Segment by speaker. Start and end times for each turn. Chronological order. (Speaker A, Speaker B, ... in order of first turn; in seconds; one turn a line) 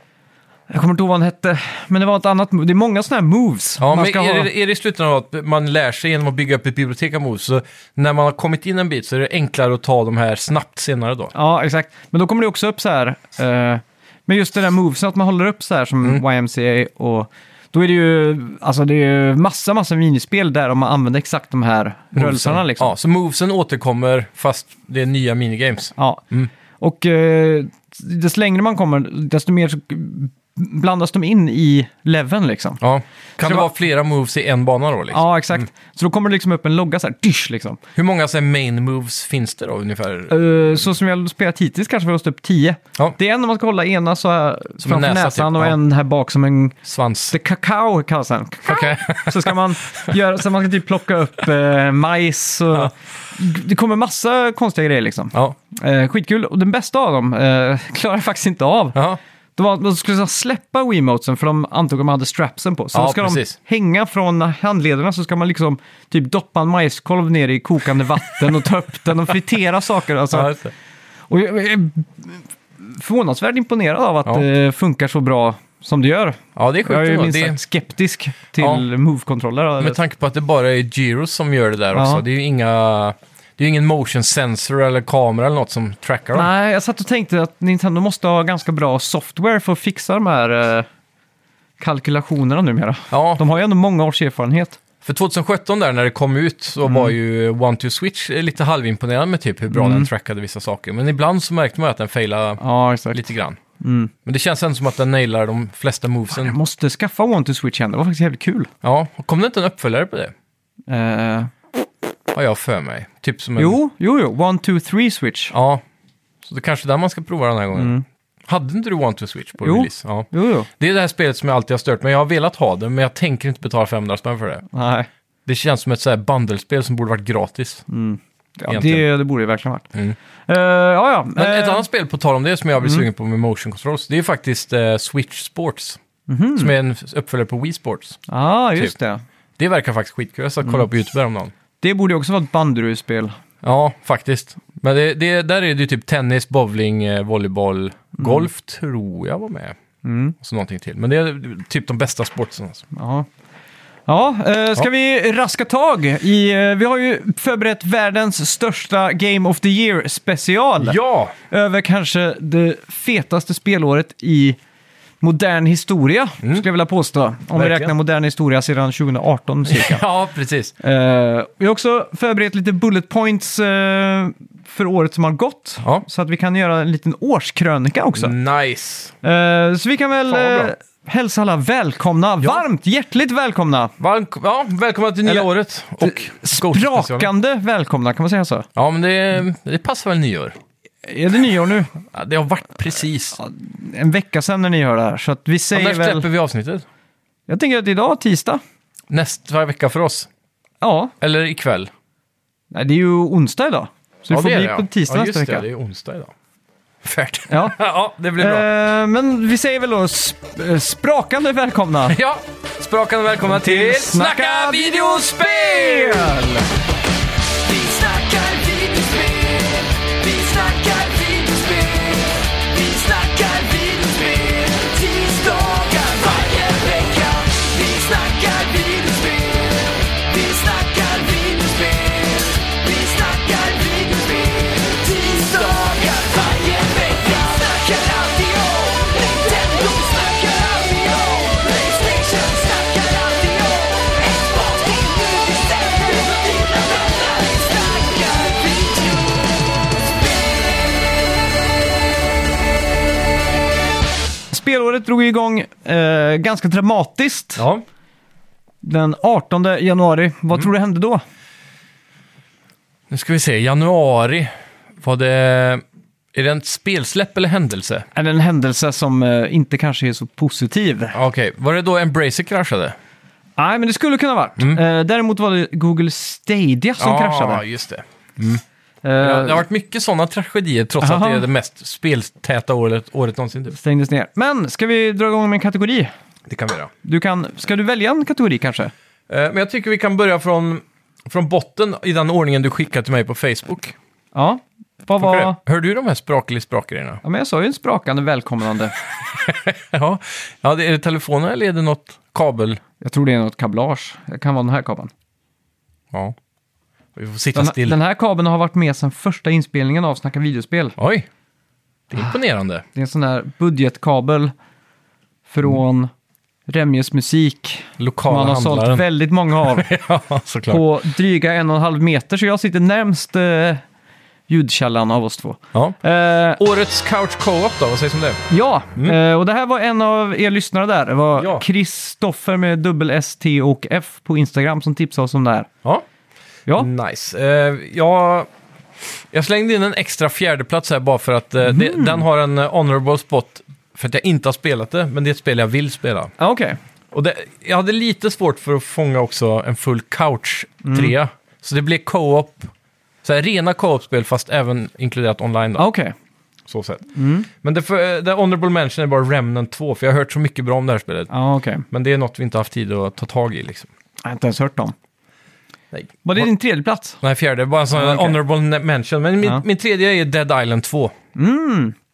Speaker A: 0.7-4.5
Speaker B: 3.8-11.3
Speaker A: 11.3-22.9
Speaker B: 22.1-26.5
Speaker A: 26.0-26.2
Speaker A: 26.8-32.8
Speaker B: 32.8-35.2
Speaker A: 35.1-37.8
Speaker B: 38.0-40.4
Speaker A: 40.3-46.8
Speaker B: 44.8-45.8
Speaker B: 46.9-47.4
Speaker A: 47.3-59.0
Speaker B: 48.7-49.6
Speaker A: 59.6-70.5
Speaker B: 62.9-63.6
Speaker B: 70.3-70.7
Speaker A: 71.3-80.0
Speaker B: 76.6-77.6
Speaker B: 78.6-78.8
Speaker B: 79.8-86.5
Speaker A: 81.9-82.2
Speaker A: 86.3-90.9
Speaker A: 91.8-94.8
Speaker B: 93.1-93.4
Speaker B: 95.0-103.6
Speaker A: 96.8-97.1
Speaker A: 99.7-100.1
Speaker A: 102.6-103.2
Speaker A: 103.8-104.1
Speaker B: 104.2-106.6
Speaker A: 106.3-108.7
Speaker B: 108.8-110.3
Speaker A: 110.9-111.5
Speaker B: 112.3-113.8
Speaker A: 113.6-115.5
Speaker B: 115.5-115.8
Speaker B: 116.4-118.0
Speaker A: 117.7-118.0
Speaker B: 118.5-124.7
Speaker A: 119.6-120.7
Speaker A: 124.7-125.1
Speaker B: 125.5-127.8
Speaker A: 127.9-129.9
Speaker B: 128.7-129.1
Speaker A: 130.5-131.9
Speaker B: 131.4-136.0
Speaker A: 136.3-136.7
Speaker B: 136.6-138.2
Speaker A: 138.3-139.2
Speaker B: 139.6-141.5
Speaker A: 141.8-143.3
Speaker B: 143.6-149.8
Speaker A: 148.2-148.5
Speaker A: 150.0-150.3
Speaker B: 150.4-152.8
Speaker A: 152.9-153.3
Speaker A: 154.1-161.0
Speaker B: 160.8-161.3
Speaker A: 161.5-164.6
Speaker A: 165.2-170.1
Speaker B: 167.5-167.9
Speaker B: 169.7-170.7
Speaker A: 170.8-178.3
Speaker B: 178.2-179.2
Speaker A: 179.2-183.9
Speaker B: 180.3-180.7
Speaker B: 184.0-187.3
Speaker A: 186.0-188.7
Speaker B: 188.8-190.6
Speaker A: 191.0-191.9
Speaker B: 192.1-193.4
Speaker A: 193.4-196.3
Speaker B: 195.7-196.8
Speaker A: 197.5-198.6
Speaker B: 199.1-200.3
Speaker A: 200.8-201.1
Speaker B: 201.2-201.9
Speaker A: 202.7-205.7
Speaker B: 204.3-206.3
Speaker B: 207.0-208.7
Speaker A: 207.5-207.8
Speaker A: 208.4-212.2
Speaker B: 212.1-216.5
Speaker A: 213.4-216.7
Speaker C: 217.6-249.4
Speaker A: 254.5-257.7
Speaker B: 257.6-257.9
Speaker A: 258.8-261.2
Speaker B: 263.1-265.8
Speaker B: 266.3-268.1
Speaker A: 268.1-271.2
Speaker B: 271.1-273.0
Speaker A: 273.6-277.6
Speaker B: 277.0-278.6
Speaker A: 279.0-279.6
Speaker B: 279.2-283.8
Speaker A: 281.0-281.5
Speaker A: 283.7-286.1
Speaker B: 286.5-286.9
Speaker A: 287.0-288.9
Speaker B: 289.3-294.0
Speaker A: 294.3-295.6
Speaker B: 295.2-297.2
Speaker A: 297.2-298.9
Speaker B: 299.3-302.8
Speaker A: 303.0-305.1
Speaker B: 307.2-308.0
Speaker A: 307.6-310.9
Speaker B: 311.0-311.3
Speaker B: 312.1-312.8
Speaker A: 312.9-314.5
Speaker A: 315.5-316.1
Speaker A: 316.7-319.9
Speaker B: 318.0-319.0
Speaker B: 319.6-320.9
Speaker A: 320.7-323.8
Speaker A: 324.5-326.6
Speaker B: 326.6-328.4
Speaker A: 328.5-335.7
Speaker B: 331.4-331.6
Speaker B: 336.8-338.5
Speaker B: 339.2-346.3
Speaker A: 341.6-342.2
Speaker A: 346.4-346.8
Speaker B: 347.1-352.7
Speaker A: 350.8-351.1
Speaker B: 353.2-355.9
Speaker A: 355.8-356.1
Speaker B: 356.7-361.3
Speaker A: 357.1-357.5
Speaker A: 361.3-361.9
Speaker B: 361.9-363.9
Speaker A: 364.2-364.9
Speaker B: 365.9-366.5
Speaker A: 366.2-367.2
Speaker B: 367.2-371.1
Speaker A: 367.9-368.4
Speaker A: 371.4-371.9